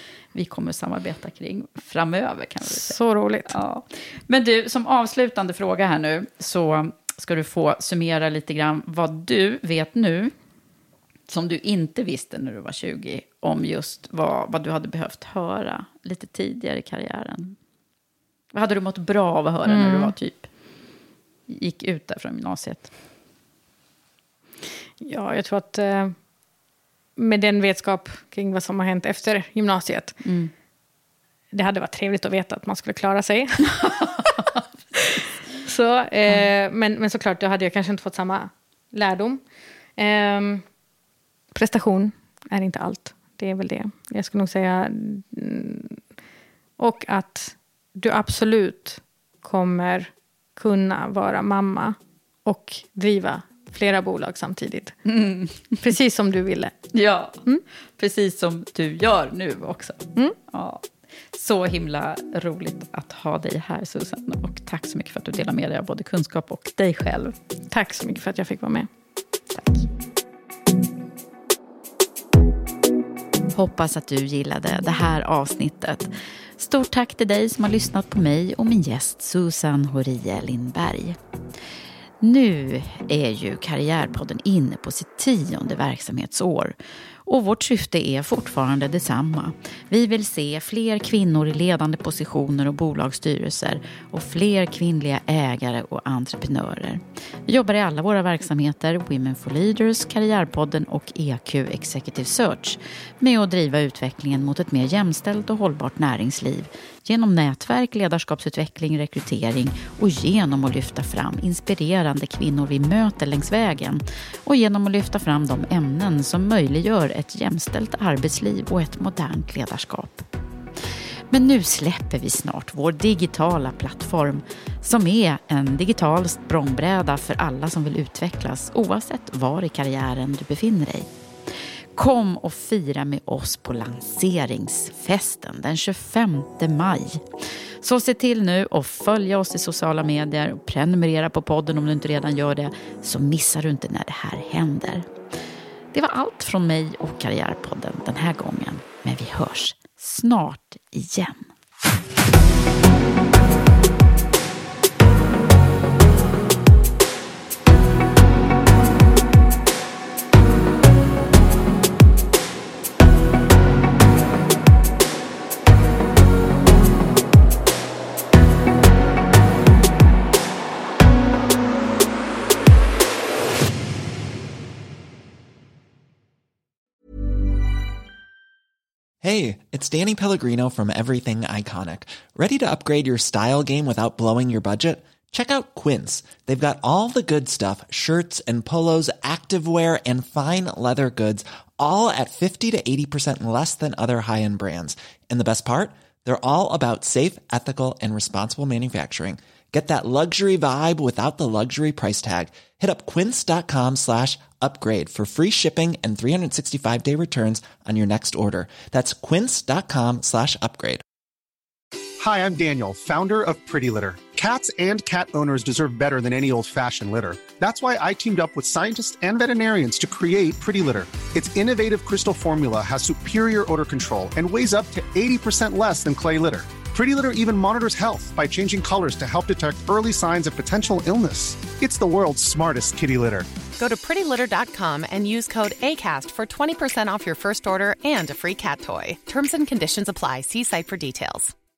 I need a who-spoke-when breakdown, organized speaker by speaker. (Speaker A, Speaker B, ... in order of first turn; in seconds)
Speaker A: 0.3-3.0, 3.5-10.3, 11.3-17.6, 18.5-20.5, 21.5-22.9, 30.2-30.5, 33.8-34.6, 55.1-55.8, 56.9-57.4, 58.0-67.3, 69.5-69.9, 73.5-81.2, 82.2-120.3, 121.3-131.1, 132.0-137.3, 137.8-145.1, 145.9-151.5
Speaker B: 2.7-3.5, 19.7-20.1, 25.0-26.2, 27.2-30.2, 31.5-39.4, 40.0-40.6, 41.5-46.0, 46.8-55.0, 55.8-56.8, 67.7-68.9
Speaker C: 179.2-211.0
Speaker D: 212.2-233.5
Speaker E: 233.8-241.5